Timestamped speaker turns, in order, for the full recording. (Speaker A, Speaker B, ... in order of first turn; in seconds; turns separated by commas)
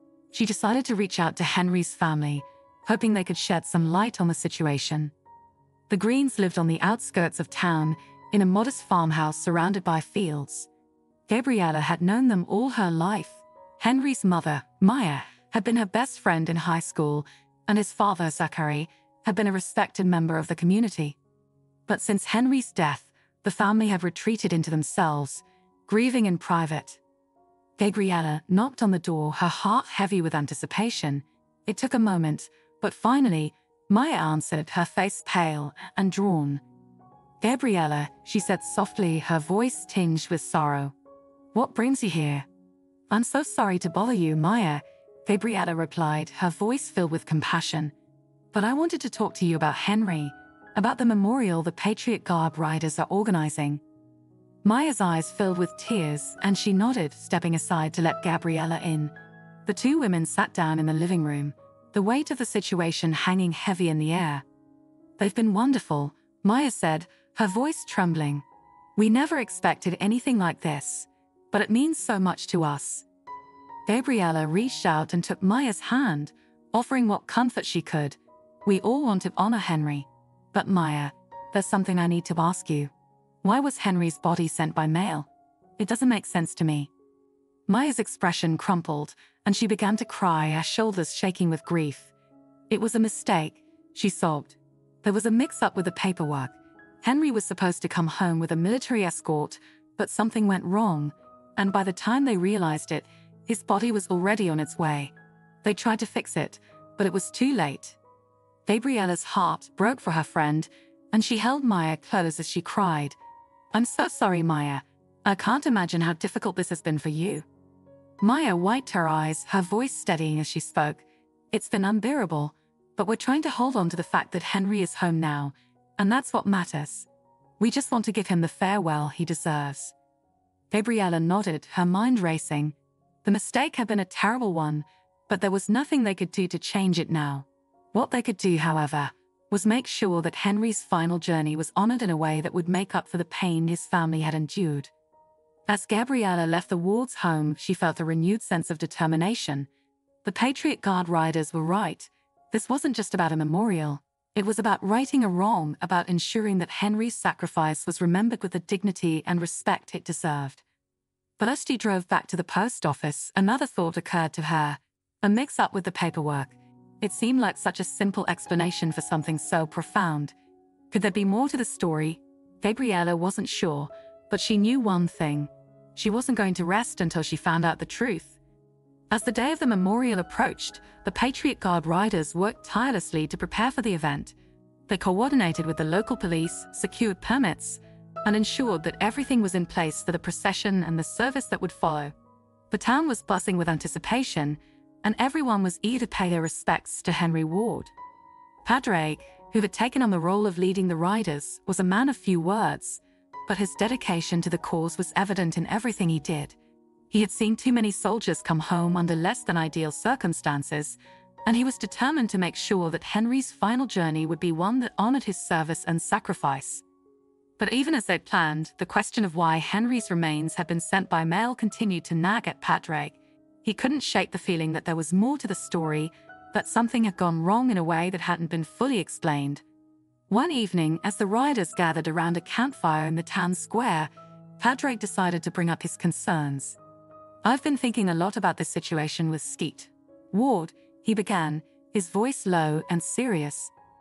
Speaker A: 0.3-5.1, Speaker A: 5.9-10.7, Speaker A: 11.3-21.2, Speaker A: 21.9-27.0, Speaker A: 27.8-36.6, Speaker A: 37.4-40.9, Speaker A: 41.5-42.5, Speaker A: 43.1-47.9, Speaker A: 48.5-53.8, Speaker A: 54.6-59.1, Speaker A: 59.7-64.4, Speaker A: 65.2-68.5, Speaker A: 69.0-73.0, Speaker A: 73.9-82.9, Speaker A: 83.4-86.9, Speaker A: 87.7-92.1, Speaker A: 92.7-108.0, Speaker A: 108.7-113.2, Speaker A: 113.7-117.5, Speaker A: 118.2-127.1, Speaker A: 127.6-129.9, Speaker A: 130.7-144.9, Speaker A: 145.7-149.7, Speaker A: 150.2-160.6, Speaker A: 161.4-170.4, Speaker A: 170.9-178.4, Speaker A: 179.1-184.4, Speaker A: 184.9-192.1, Speaker A: 192.7-197.9, Speaker A: 198.7-206.6, Speaker A: 207.1-216.8, Speaker A: 217.6-229.6, Speaker A: 230.3-236.8, Speaker A: 237.4-243.7